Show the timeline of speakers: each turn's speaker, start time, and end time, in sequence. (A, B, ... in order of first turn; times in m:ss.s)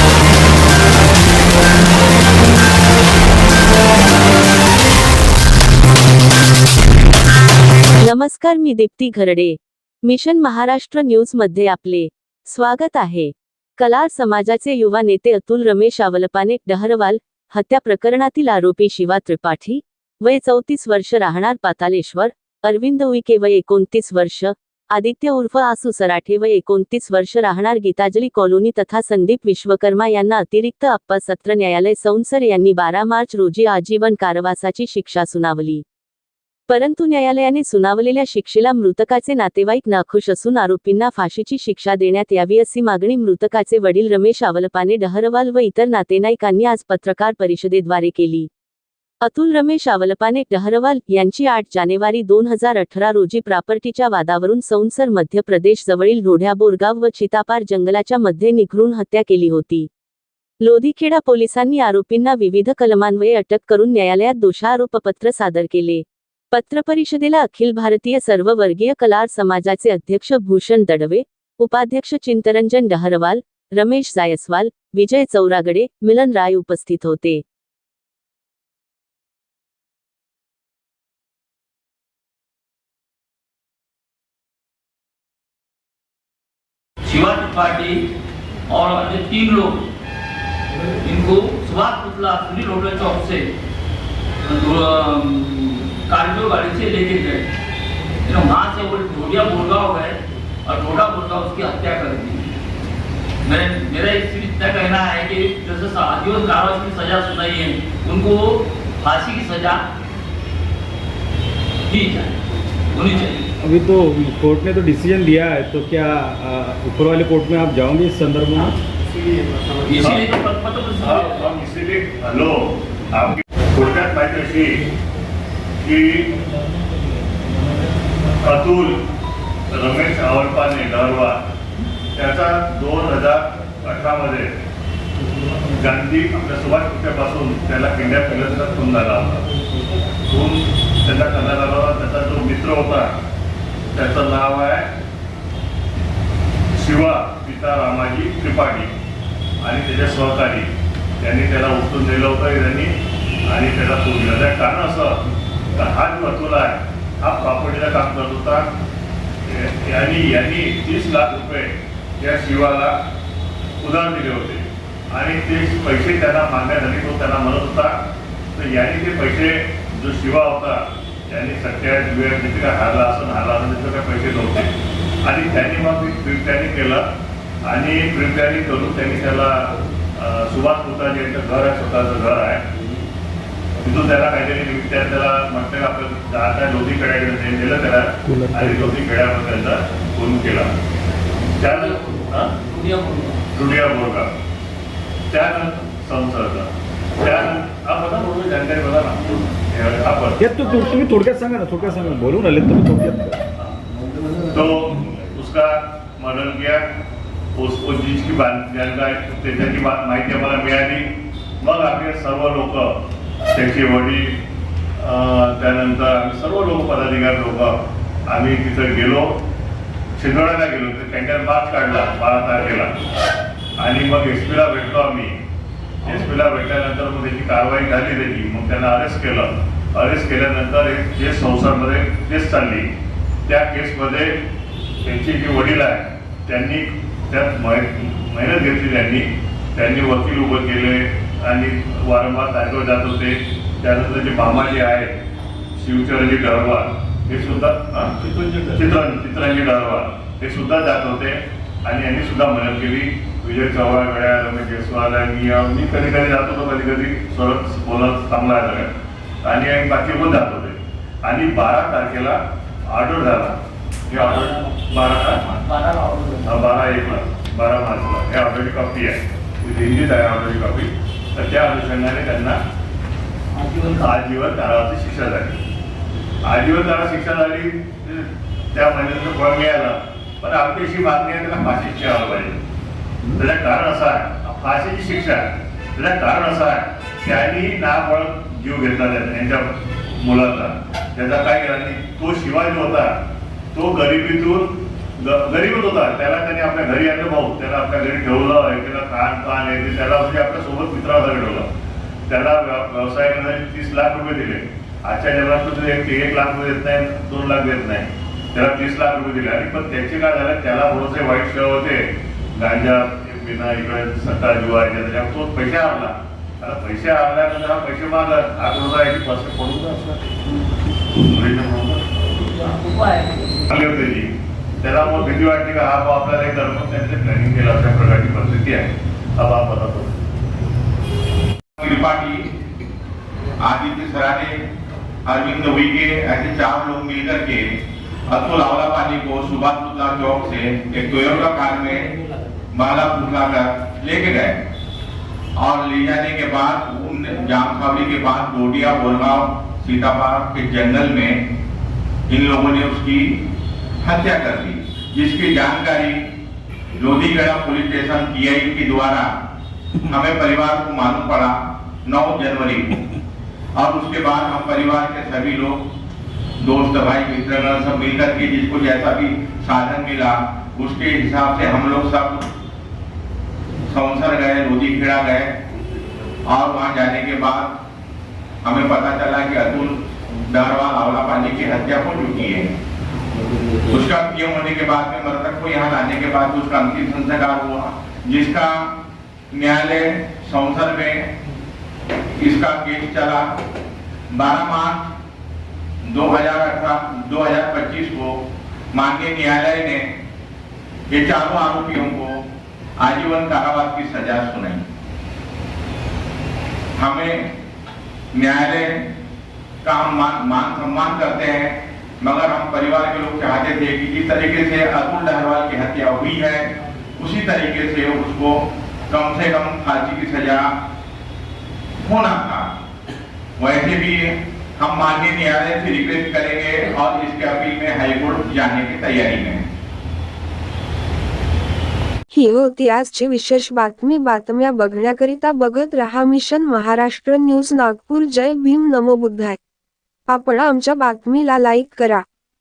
0:08.0-0:35.8 A
0:36.7-0:48.5 A
0:49.2-0:59.9 A
1:00.6-1:17.4 A
1:27.0-1:28.0 B
1:28.7-1:29.8 B
1:31.0-1:33.5 B
1:34.4-1:37.5 B
1:38.2-1:42.4 B
1:43.4-1:49.8 B
1:51.9-1:52.3 B
1:52.9-1:53.5 B
1:53.6-1:58.8 C
1:59.8-2:01.4 B
2:01.0-2:04.9 D
2:05.8-2:06.3 D
2:08.4-2:09.0 D
2:09.7-2:11.4 D
2:12.1-2:14.6 D
2:15.7-2:19.5 D
2:20.2-2:23.2 D
2:23.9-2:24.9 D
2:26.7-2:28.9 D
2:29.6-2:38.7 D
2:39.4-2:43.0 D
2:43.8-2:48.0 D
2:48.5-2:57.0 D
2:57.6-3:02.6 D
3:03.8-3:10.7 D
3:11.6-3:12.6 D
3:11.8-3:13.5 B
3:13.5-3:14.3 D
3:15.3-3:20.5 D
3:20.4-3:23.4 C
3:24.5-3:26.8 D
3:27.5-3:34.4 D
3:35.0-3:37.8 D
3:38.3-3:39.4 D
3:40.2-3:42.9 D
3:43.8-3:45.4 D
3:46.0-3:52.9 D
3:53.4-3:54.4 D
3:55.0-4:05.1 D
4:05.8-4:25.6 D
4:24.1-4:24.8 B
4:25.5-4:26.9 B
4:26.4-4:32.6 D
4:33.6-4:34.1 B
4:33.9-4:35.6 D
4:36.4-4:42.6 D
4:43.3-4:53.2 D
4:53.7-5:01.7 D
5:02.3-5:20.3 D
5:21.1-5:22.2 D
5:22.4-5:23.7 B
5:23.7-5:30.2 D
5:31.8-5:32.5 E
5:33.6-5:34.6 E
5:35.2-5:37.7 E
5:38.3-5:42.1 E
5:42.7-5:44.6 E
5:45.6-5:51.4 E
5:52.3-5:53.4 E
5:54.0-5:56.2 E
5:56.9-5:59.3 E
6:00.0-6:03.0 E
6:03.8-6:05.8 E
6:06.6-6:12.4 E
6:13.9-6:15.5 E
6:16.5-6:17.8 E
6:18.6-6:22.7 E
6:23.9-6:28.9 E
6:29.5-6:31.3 E
6:32.4-6:33.4 E
6:34.3-6:35.1 E
6:36.1-6:38.4 E
6:38.9-6:40.1 E
6:41.1-6:42.4 E
6:43.0-6:44.8 E
6:47.0-6:47.5 E
6:48.3-6:49.0 E
6:49.8-7:00.7 E
7:02.0-7:02.7 E
7:03.6-7:09.6 E
7:12.3-7:19.6 F
7:20.3-7:22.2 F